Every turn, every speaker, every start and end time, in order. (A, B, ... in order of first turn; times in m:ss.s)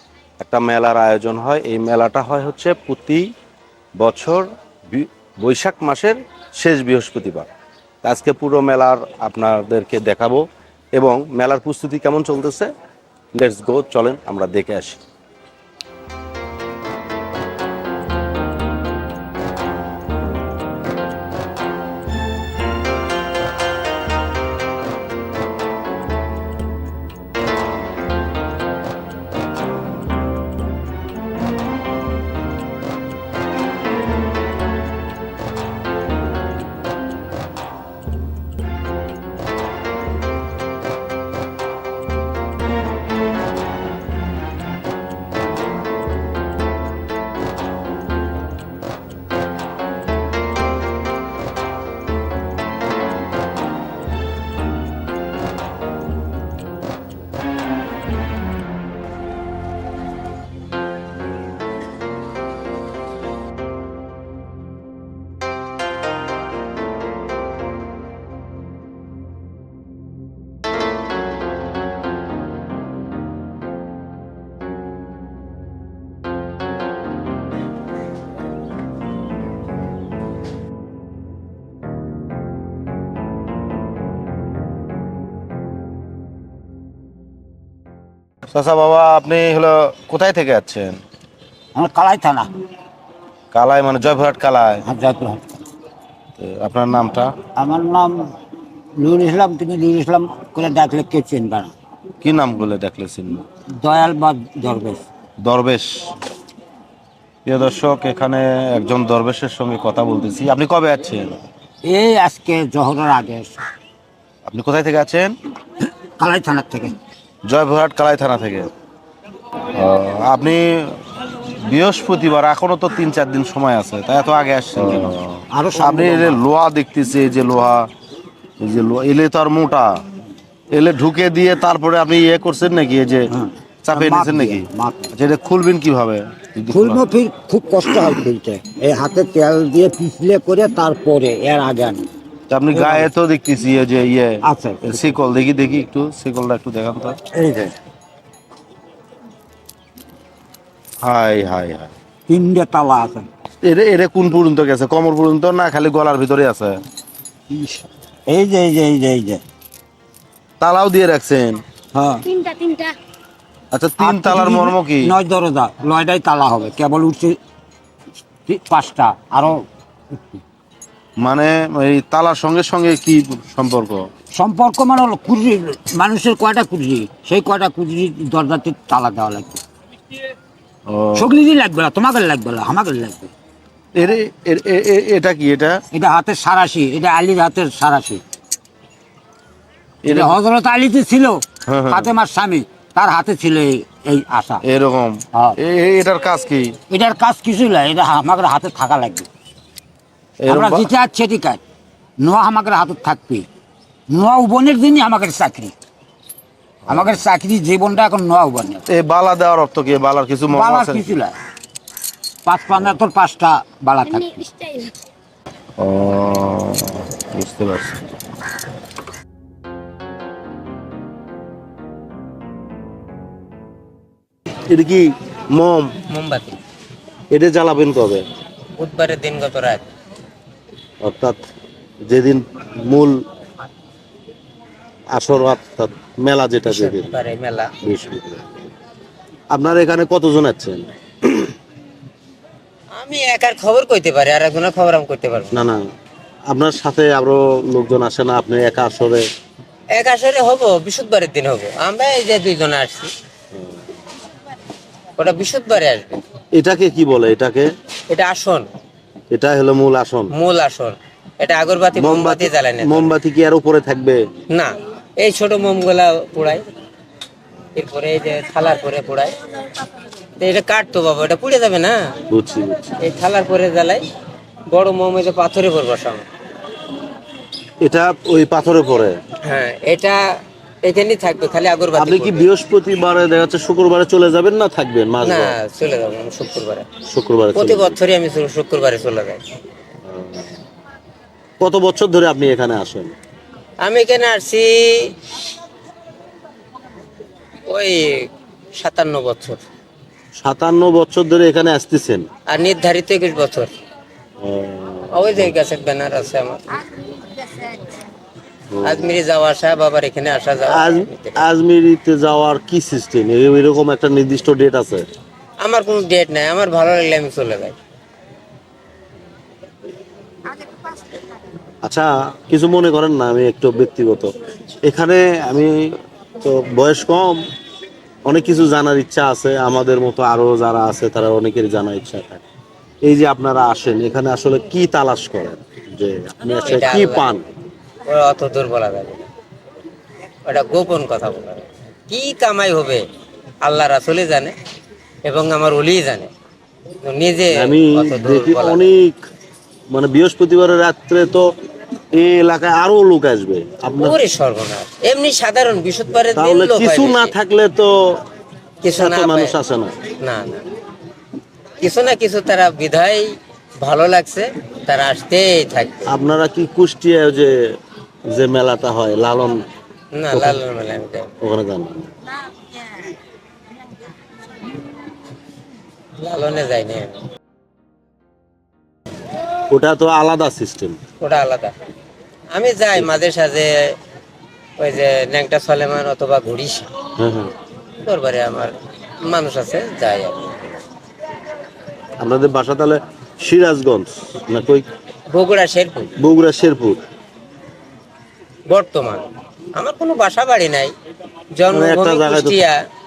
0:00.4-0:03.3 A
0:04.0-0:07.5 A
0:08.0-0:10.4 A
0:11.0-0:12.7 A
0:13.3-0:15.0 A
1:28.5-1:31.0 A
1:31.8-1:32.5 B
1:33.5-1:34.8 A
1:34.8-1:35.4 B
1:36.4-1:37.3 A
1:37.6-1:38.3 B
1:39.0-1:41.8 B
1:42.2-1:43.4 A
1:43.8-1:45.1 B
1:45.4-1:46.1 A
1:47.4-1:51.4 A
1:51.8-1:53.6 B
1:54.5-1:55.3 A
1:56.2-1:57.0 B
1:57.5-1:58.7 A
1:59.7-2:07.9 A
2:04.8-2:06.4 B
2:08.6-2:10.0 A
2:10.7-2:13.3 A
2:13.3-2:15.1 B
2:13.8-2:17.0 A
2:16.7-2:22.1 B
2:22.5-2:27.2 A
2:22.7-2:23.1 B
2:24.4-2:25.2 B
2:27.3-2:27.8 B
2:31.0-2:31.9 A
2:32.3-2:33.3 B
2:33.6-2:36.8 A
2:37.5-2:39.4 B
2:40.6-2:41.6 A
2:41.9-2:42.9 B
2:43.7-2:45.1 A
2:44.0-2:47.4 B
2:48.5-2:49.6 B
2:51.2-2:54.1 A
2:54.4-2:59.6 B
3:00.9-3:01.3 A
3:01.1-3:03.3 B
3:04.0-3:05.8 A
3:05.9-3:08.2 B
3:10.0-3:10.4 A
3:10.1-3:14.6 B
3:11.7-3:12.1 A
3:14.6-3:16.8 A
3:16.9-3:19.3 B
3:20.4-3:20.9 A
3:20.5-3:21.6 B
3:22.2-3:23.5 B
3:24.1-3:25.7 B
3:26.9-3:27.2 A
3:26.9-3:28.8 B
3:28.9-3:31.1 A
3:30.5-3:31.4 B
3:32.5-3:34.8 B
3:35.8-3:38.0 A
3:44.7-3:45.9 A
3:46.1-3:46.6 C
3:47.3-3:48.2 A
3:48.8-3:49.9 C
3:51.0-3:51.4 A
3:52.1-3:53.2 A
3:55.1-3:57.2 A
3:56.7-3:57.7 C
3:57.8-3:58.7 A
3:59.5-4:01.5 A
4:03.0-4:05.7 C
4:05.5-4:05.8 A
4:06.5-4:09.2 A
4:09.9-4:13.1 C
4:15.2-4:16.2 C
4:16.5-4:17.7 A
4:18.1-4:18.7 C
4:19.3-4:20.4 A
4:20.3-4:23.2 C
4:22.0-4:24.2 A
4:24.5-4:26.6 C
4:27.8-4:29.4 C
4:30.4-4:32.0 C
4:32.3-4:32.9 A
4:33.0-4:34.0 C
4:34.7-4:36.3 C
4:37.8-4:39.2 A
4:39.4-4:40.3 C
4:40.8-4:42.5 C
4:42.0-4:45.6 A
4:45.2-4:46.9 C
4:47.0-4:48.0 A
4:47.6-4:49.4 C
4:50.1-4:50.5 A
4:51.6-4:53.1 A
4:53.8-4:55.2 C
4:57.7-4:59.6 C
5:00.4-5:02.3 A
5:02.5-5:03.7 C
5:04.4-5:05.6 A
5:05.1-5:07.9 C
5:08.7-5:09.2 A
5:08.8-5:11.5 C
5:10.7-5:15.0 A
5:15.6-5:17.8 C
5:21.8-5:24.3 A
5:24.8-5:27.4 A
5:28.3-5:32.4 A
5:33.0-5:37.5 A
5:36.6-5:37.3 C
5:38.1-5:39.3 C
5:40.4-5:43.0 C
5:43.6-5:44.6 C
5:45.2-5:46.3 C
5:47.0-5:48.9 C
5:47.5-5:49.2 A
5:49.9-5:51.5 A
5:52.1-5:54.2 A
5:54.0-5:57.3 C
5:56.4-5:57.9 A
5:58.8-5:59.6 C
5:59.0-6:00.0 A
6:00.2-6:00.6 C
6:01.8-6:06.1 C
6:06.1-6:07.6 A
6:08.3-6:09.6 A
6:10.2-6:11.3 C
6:10.3-6:10.6 A
6:11.4-6:12.1 A
6:16.2-6:17.2 C
6:19.7-6:21.0 A
6:21.2-6:21.7 C
6:22.5-6:24.0 C
6:24.8-6:26.9 C
6:27.2-6:27.5 A
6:28.0-6:28.7 C
6:29.2-6:30.6 C
6:32.2-6:34.9 A
6:35.3-6:36.1 C
6:36.2-6:37.0 A
6:38.7-6:40.9 C
6:41.6-6:42.8 C
6:41.7-6:42.6 A